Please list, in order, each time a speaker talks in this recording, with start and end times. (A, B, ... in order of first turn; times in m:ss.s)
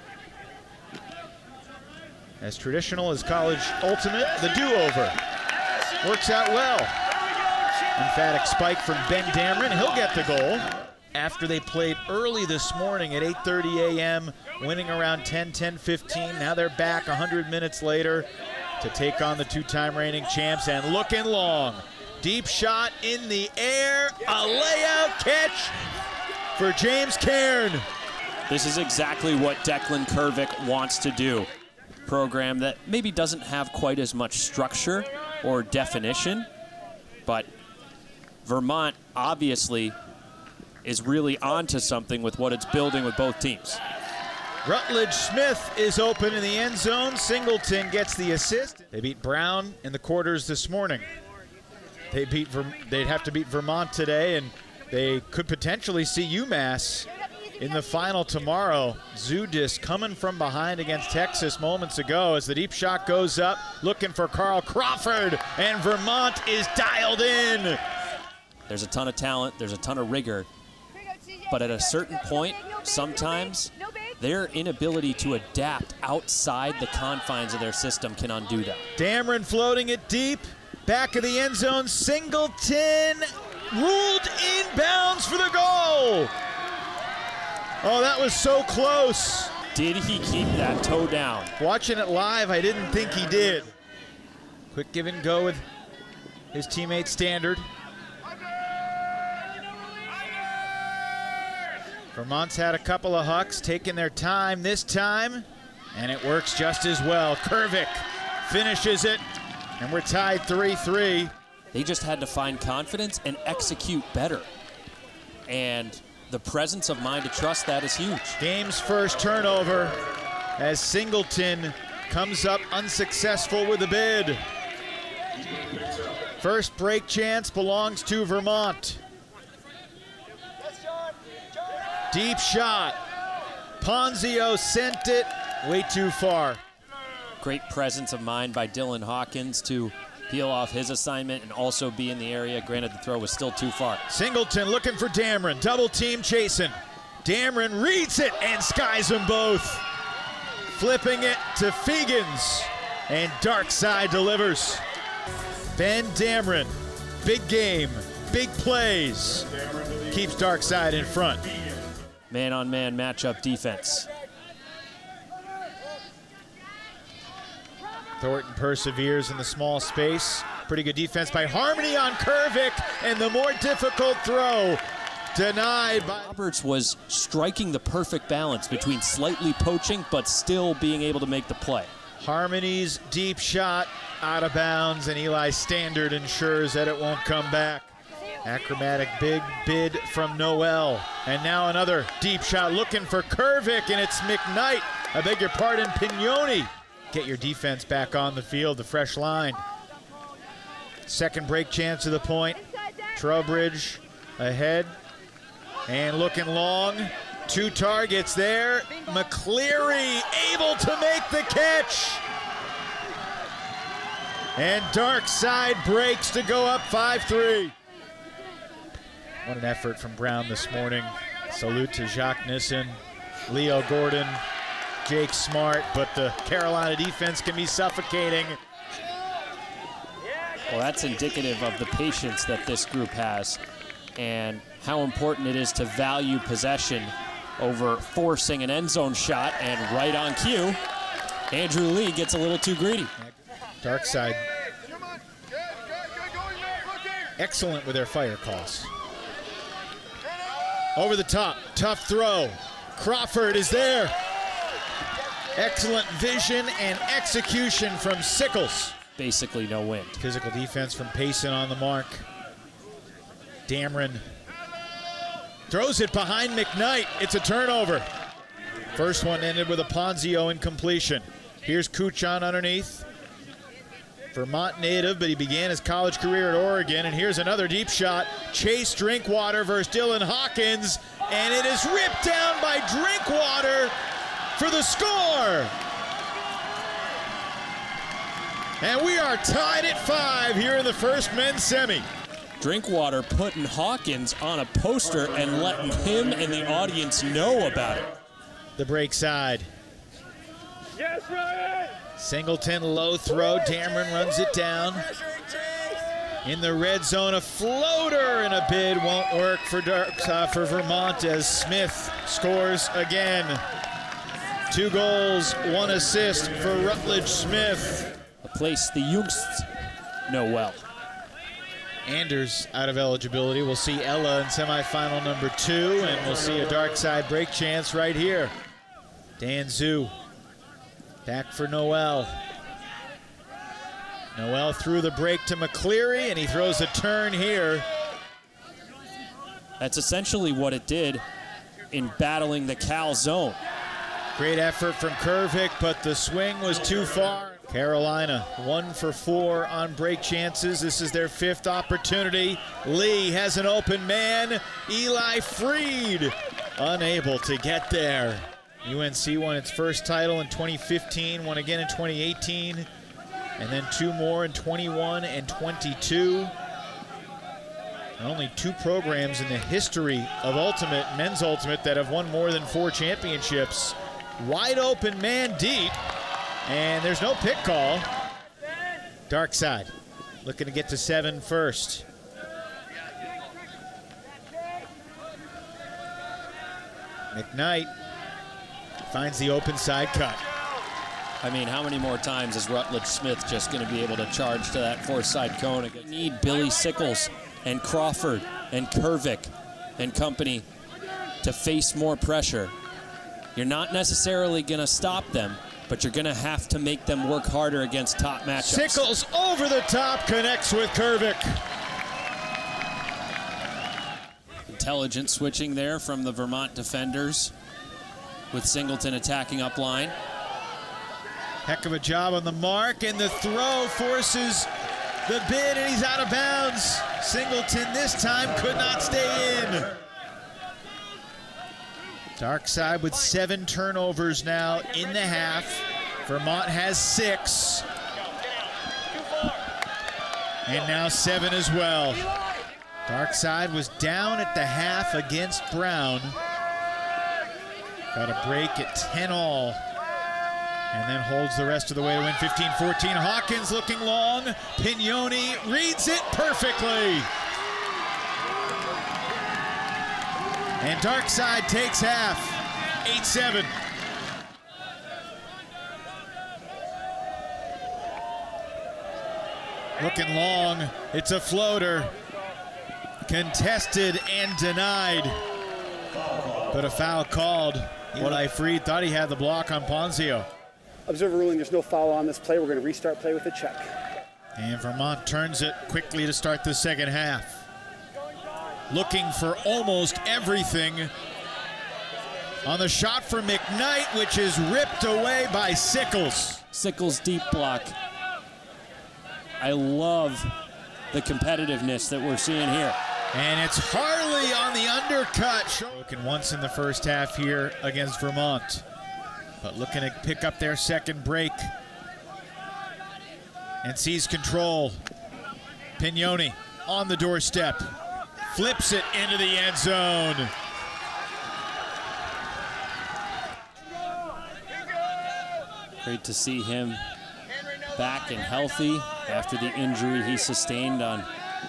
0:02.4-0:05.2 A
0:06.0-0:06.9 A
0:08.0-0:18.3 A
0:18.8-0:25.8 A
0:26.6-0:27.8 A
0:28.5-0:31.5 B
0:32.0-0:36.5 B
0:38.4-0:40.0 B
0:40.8-0:43.8 B
0:44.6-0:51.0 A
0:52.1-0:57.1 A
0:57.6-1:07.8 A
1:08.7-1:10.5 B
1:11.5-1:18.8 B
1:19.0-1:26.3 A
1:27.8-1:29.5 A
1:29.7-1:31.5 B
1:31.6-1:33.7 A
1:34.7-1:35.6 A
1:36.5-1:37.6 A
1:42.1-1:49.2 A
1:49.8-1:51.3 A
1:51.7-1:54.5 B
1:55.5-1:58.4 B
1:58.4-2:00.0 A
2:00.6-2:04.4 A
2:06.4-2:09.0 A
2:12.1-2:13.0 A
2:13.8-2:16.6 A
2:17.4-2:24.0 B
2:24.1-2:29.8 A
2:30.7-2:34.8 A
2:35.7-2:39.5 A
2:40.0-2:41.4 A
2:42.3-2:44.1 B
2:48.2-2:54.8 A
2:55.3-2:56.4 A
2:56.2-3:01.9 B
3:02.2-3:07.9 A
3:08.4-3:19.6 A
3:21.1-3:22.6 A
3:23.1-3:24.9 A
3:25.9-3:32.2 A
3:34.6-3:37.7 A
3:39.4-3:44.4 A
3:45.0-3:48.6 A
3:50.7-3:53.6 B
3:54.2-4:00.8 B
4:01.5-4:03.1 B
4:03.2-4:04.4 A
4:07.4-4:08.9 A
4:11.0-4:14.2 A
4:15.5-4:19.0 A
4:19.2-4:20.2 B
4:20.2-4:22.2 A
4:23.7-4:24.2 A
4:25.7-4:28.0 A
4:28.9-4:33.0 A
4:34.3-4:43.9 A
4:44.6-4:45.7 A
4:48.8-4:52.0 A
4:52.6-4:58.1 B
4:58.8-4:59.7 A
5:02.2-5:05.0 A
5:06.4-5:13.6 A
5:14.7-5:18.1 A
5:18.4-5:19.7 B
5:20.3-5:20.8 B
5:22.0-5:28.5 A
5:29.4-5:30.1 A
5:31.2-5:32.4 A
5:34.4-5:37.8 A
5:39.8-5:41.2 B
5:41.9-5:43.6 B
5:44.3-6:02.9 A
6:03.6-6:06.5 A
6:08.2-6:16.0 A
6:16.6-6:18.1 A
6:19.3-6:19.9 A
6:20.4-6:22.0 A
6:27.3-6:27.9 A
6:29.0-6:30.4 A
6:31.4-6:40.6 B
6:41.4-6:42.7 B
6:43.5-6:49.0 B
6:48.6-6:51.6 A
6:54.7-6:57.5 B
6:58.5-7:00.1 B
7:01.6-7:04.7 A
7:05.2-7:09.9 A
7:12.4-7:17.8 A
7:20.7-7:22.3 A
7:23.1-7:26.4 A
7:28.1-7:29.8 A
7:30.9-7:37.3 A
7:40.8-7:43.7 A
7:50.0-7:52.1 A
7:53.2-7:55.4 A
7:56.7-8:00.5 A
8:01.1-8:03.9 C
8:04.6-8:07.6 A
8:08.9-8:11.1 A
8:12.6-8:16.6 A
8:16.7-8:17.9 B
8:19.6-8:20.5 B
8:21.1-8:23.0 B
8:23.3-8:28.8 A
8:29.6-8:31.7 A
8:33.8-8:35.0 A
8:36.0-8:37.9 A
8:38.5-8:40.5 A
8:46.0-8:47.0 B
8:47.9-8:51.3 B